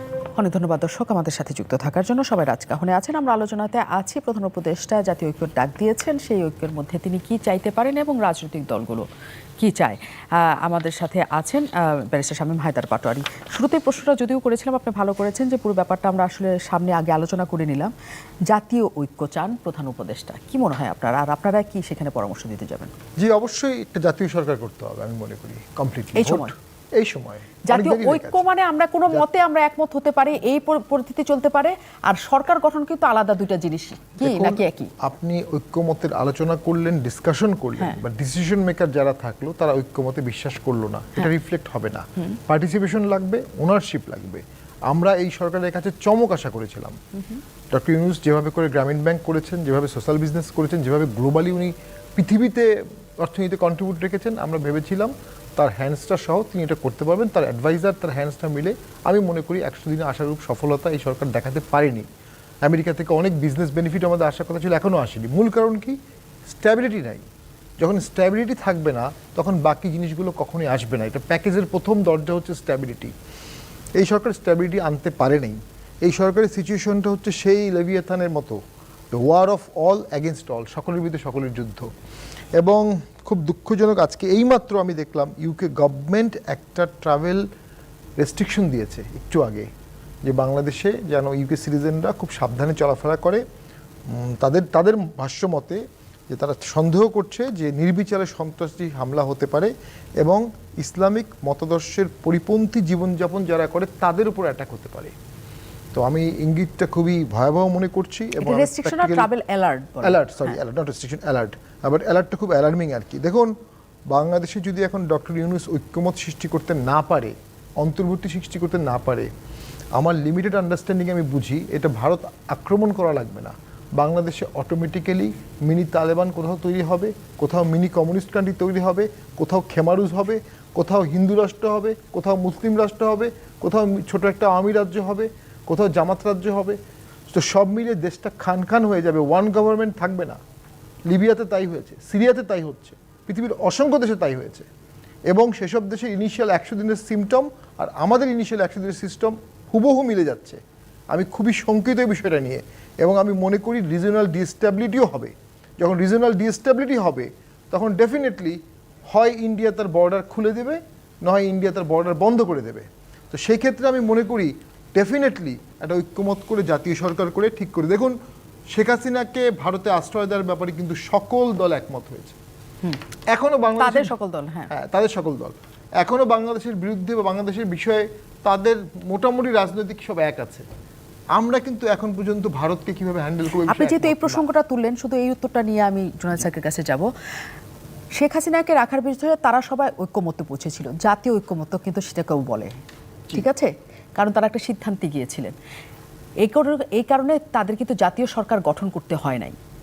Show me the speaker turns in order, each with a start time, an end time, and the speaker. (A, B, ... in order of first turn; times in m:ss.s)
0:00.4-0:09.1 A
0:09.6-0:17.9 A
0:18.5-0:22.9 A
0:23.2-0:28.4 B
0:26.2-0:26.5 A
0:27.7-0:34.9 A
0:34.2-0:47.0 B
0:47.7-1:02.1 B
1:02.6-1:07.2 B
1:07.8-1:13.1 B
1:14.0-1:18.6 B
1:19.1-1:21.9 B
1:22.6-1:27.5 B
1:28.2-1:29.7 B
1:30.2-1:33.4 B
1:34.1-1:45.1 B
1:45.9-1:49.3 B
1:48.4-1:50.6 A
1:50.0-1:53.5 B
1:54.1-1:59.3 B
2:00.0-2:16.8 B
2:17.3-2:20.4 B
2:21.1-2:24.7 B
2:25.3-2:30.6 B
2:31.1-2:38.6 B
2:39.1-2:48.2 B
2:48.7-2:52.4 B
2:53.3-2:54.1 B
2:53.8-2:54.7 A
2:54.7-3:00.7 B
3:01.4-3:04.4 B
3:03.7-3:07.1 A
3:08.2-3:12.7 A
3:13.3-3:15.5 A
3:16.4-3:19.6 A